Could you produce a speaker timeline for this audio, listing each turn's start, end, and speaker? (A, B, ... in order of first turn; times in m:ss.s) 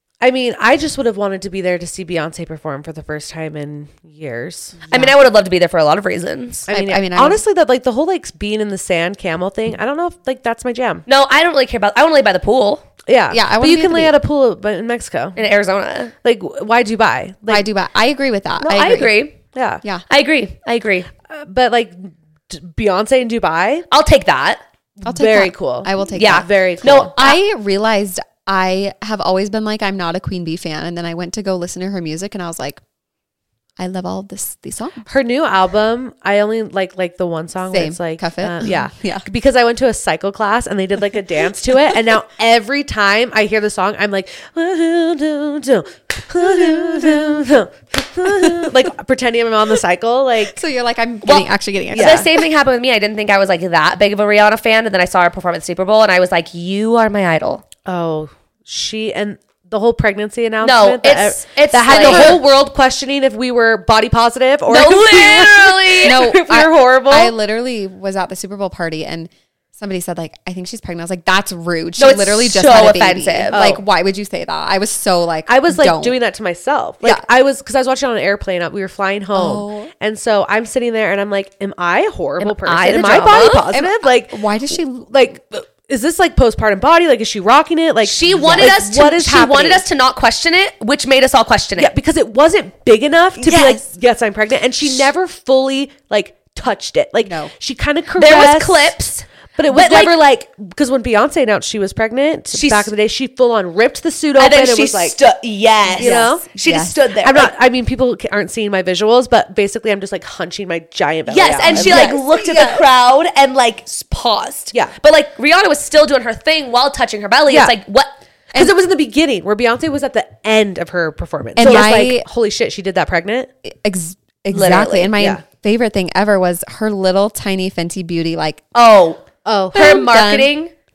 0:00.2-0:04.8 A
0:04.9-0:05.2 B
0:04.9-0:06.7 C
0:06.7-0:11.0 A
0:06.7-0:07.4 B
0:11.1-0:12.8 C
0:13.1-0:15.4 A
0:13.3-0:14.2 B
0:15.4-0:16.1 C
0:16.2-0:17.7 A
0:17.5-0:19.2 B
0:18.6-0:19.4 C
0:19.5-0:19.8 A
0:20.1-0:21.1 C
0:21.3-0:23.9 A
0:23.9-0:24.6 C
0:25.0-0:27.1 A
0:25.0-0:32.8 B
0:26.1-0:27.4 C
0:33.8-0:35.1 B
0:35.1-0:50.6 A
0:37.7-0:39.3 B
0:46.4-0:47.4 B
0:48.2-0:48.8 B
0:50.5-0:52.3 B
0:51.2-0:57.6 C
0:51.9-0:52.3 A
0:57.9-1:07.3 A
1:00.6-1:02.4 C
1:01.9-1:02.4 B
1:04.7-1:06.4 C
1:06.0-1:16.2 B
1:12.0-1:13.6 C
1:13.5-1:13.8 A
1:15.5-1:24.4 A
1:19.3-1:19.9 B
1:22.4-1:23.7 C
1:23.5-1:25.1 B
1:25.1-1:29.8 A
1:28.0-1:31.9 C
1:28.3-1:28.8 B
1:31.8-1:38.9 A
1:33.4-1:33.9 B
1:33.5-1:33.7 C
1:37.2-1:37.5 B
1:38.2-1:40.2 C
1:39.6-1:45.2 A
1:42.5-1:42.9 C
1:44.4-1:47.5 C
1:46.0-1:47.0 B
1:46.0-1:46.5 A
1:47.2-1:52.8 A
1:51.3-1:58.2 C
1:51.6-1:52.2 B
1:58.5-2:03.5 A
2:01.6-2:02.3 B
2:01.6-2:01.9 C
2:03.6-2:08.6 B
2:04.5-2:05.1 C
2:05.2-2:05.4 A
2:08.8-2:10.7 C
2:09.4-2:10.0 A
2:09.7-2:10.5 B